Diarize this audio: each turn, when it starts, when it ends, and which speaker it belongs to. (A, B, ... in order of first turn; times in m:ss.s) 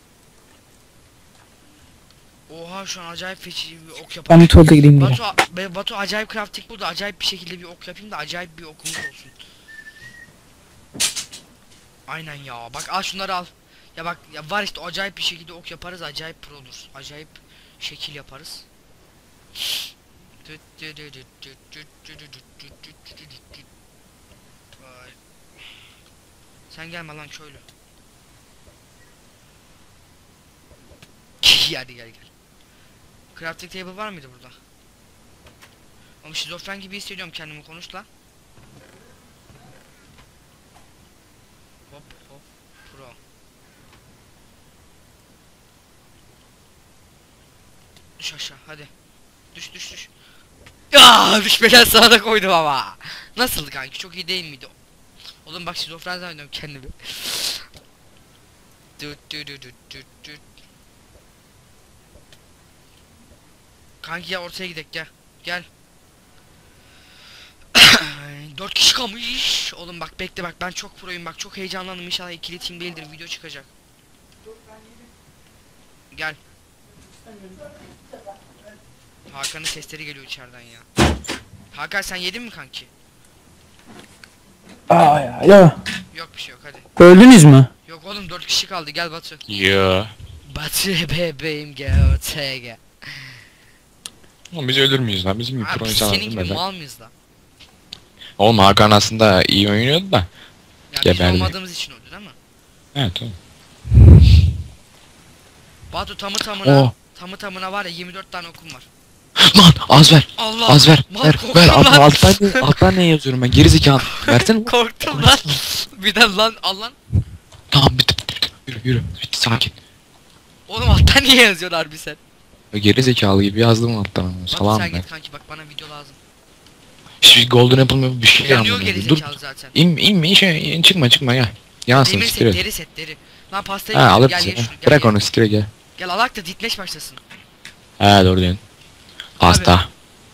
0:02.5-0:09.3 A
0:04.3-0:05.2 B
0:12.1-0:18.6 A
0:20.4-0:23.6 A
0:24.8-0:25.2 A
0:26.7-0:27.6 A
0:31.4-0:32.3 A
0:33.3-0:34.6 A
0:36.2-0:38.1 A
0:41.9-0:43.2 A
0:48.2-0:48.9 A
0:49.5-0:50.1 A
0:50.9-0:54.7 A
0:55.4-0:57.6 A
0:59.0-1:00.4 A
1:04.0-1:05.7 A
1:07.7-1:13.7 A
1:16.1-1:16.4 A
1:19.3-1:20.9 A
1:21.7-1:22.9 A
1:24.9-1:25.8 B
1:26.1-1:26.9 A
1:27.0-1:27.7 B
1:27.8-1:29.4 A
1:29.5-1:30.1 C
1:30.4-1:33.3 A
1:34.5-1:36.6 C
1:35.6-1:37.1 A
1:38.4-1:40.3 C
1:40.9-1:42.4 A
1:41.0-1:41.5 C
1:42.9-1:43.3 C
1:45.9-1:48.9 A
1:46.6-1:46.9 C
1:49.4-1:55.4 C
1:50.4-1:52.8 A
1:54.0-1:57.0 A
1:57.7-1:59.7 C
2:00.7-2:02.2 A
2:02.7-2:05.0 C
2:04.5-2:06.2 A
2:07.2-2:12.6 C
2:08.4-2:09.7 A
2:11.9-2:15.2 A
2:13.9-2:15.7 C
2:16.0-2:17.2 A
2:18.0-2:18.6 C
2:19.4-2:19.8 A
2:19.4-2:19.9 C